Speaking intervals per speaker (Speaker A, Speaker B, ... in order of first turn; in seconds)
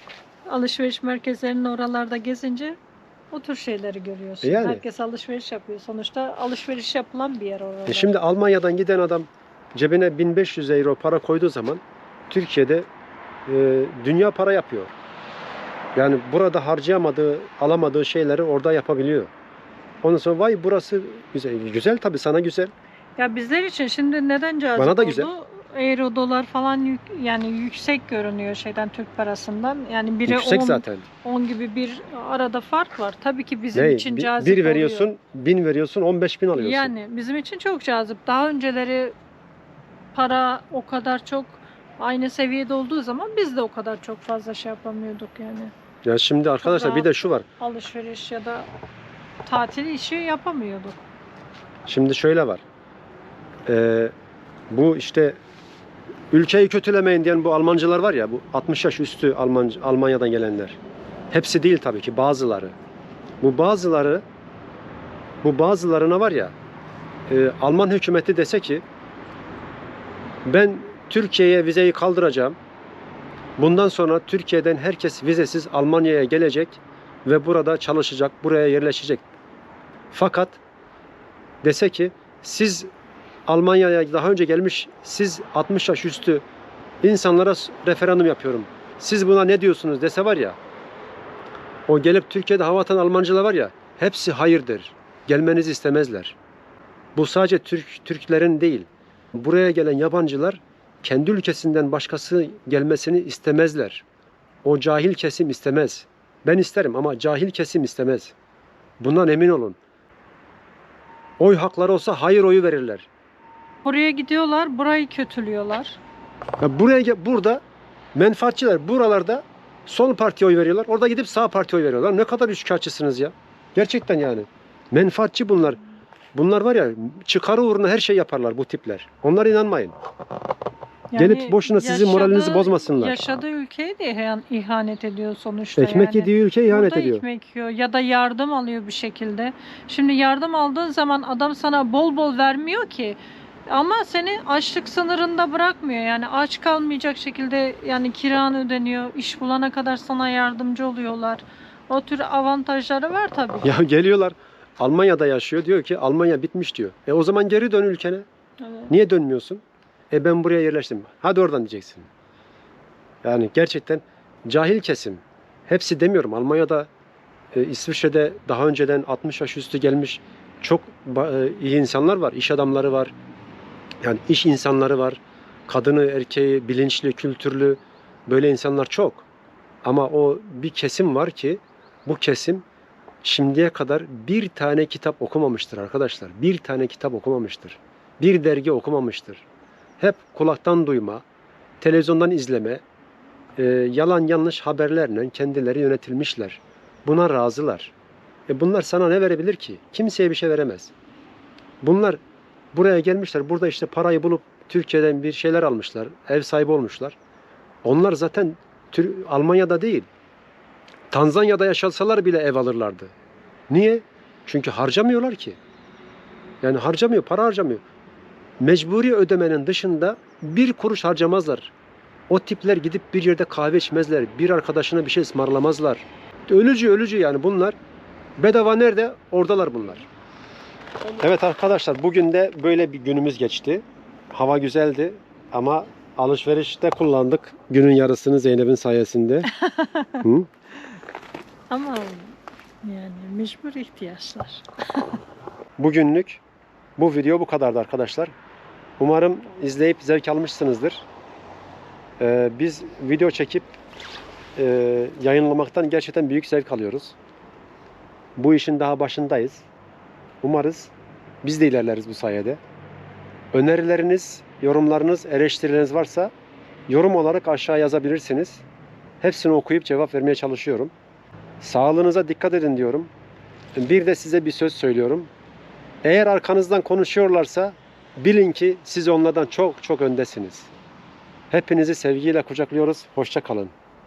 Speaker A: 0.5-2.8, 3.3-8.2, 23.2-35.1, 36.5-39.1, 40.1-45.7, 46.6-48.7, 49.5-51.0, 113.8-116.0, 131.1-153.7, 158.6-158.9, 239.5-240.2, 241.7-245.2
Speaker B: 4.4-4.8, 7.9-12.9, 13.5-14.9, 15.9-19.3, 20.0-22.7, 24.8-25.3, 30.3-31.1, 33.7-36.9, 46.0-47.5, 51.9-52.6, 53.7-54.1, 54.7-55.4, 56.3-60.8, 61.3-62.8, 63.4-64.2, 65.4-66.5, 67.3-68.8, 70.5-72.6, 73.6-79.2, 80.1-80.6, 81.6-82.9, 83.5-86.5, 87.0-90.6, 91.9-96.4, 97.2-104.0, 104.6-108.3, 109.0-109.8, 111.4-113.1, 116.6-117.6, 118.2-125.8, 126.3-129.9, 131.2-133.3, 135.8-137.2, 153.6-158.3, 158.9-162.1, 163.2-166.9, 167.5-173.1, 174.0-179.3, 179.8-182.7, 183.2-189.4, 190.0-191.2, 191.8-192.8, 193.6-197.9, 198.5-200.9, 201.8-202.2, 202.7-207.2, 207.8-210.1, 211.1-213.1, 213.7-215.6, 216.6-217.8, 218.6-221.7, 222.3-227.8, 228.4-230.1, 231.2-239.5, 240.2-240.5, 245.8-246.4, 247.0-248.3, 249.0-251.0, 252.2-253.8, 254.6-257.1, 258.4-259.6, 260.4-260.9, 261.4-262.6, 263.5-266.3, 266.9-268.6, 269.2-270.9, 271.6-273.1, 273.8-275.3, 276.0-280.7, 281.5-283.7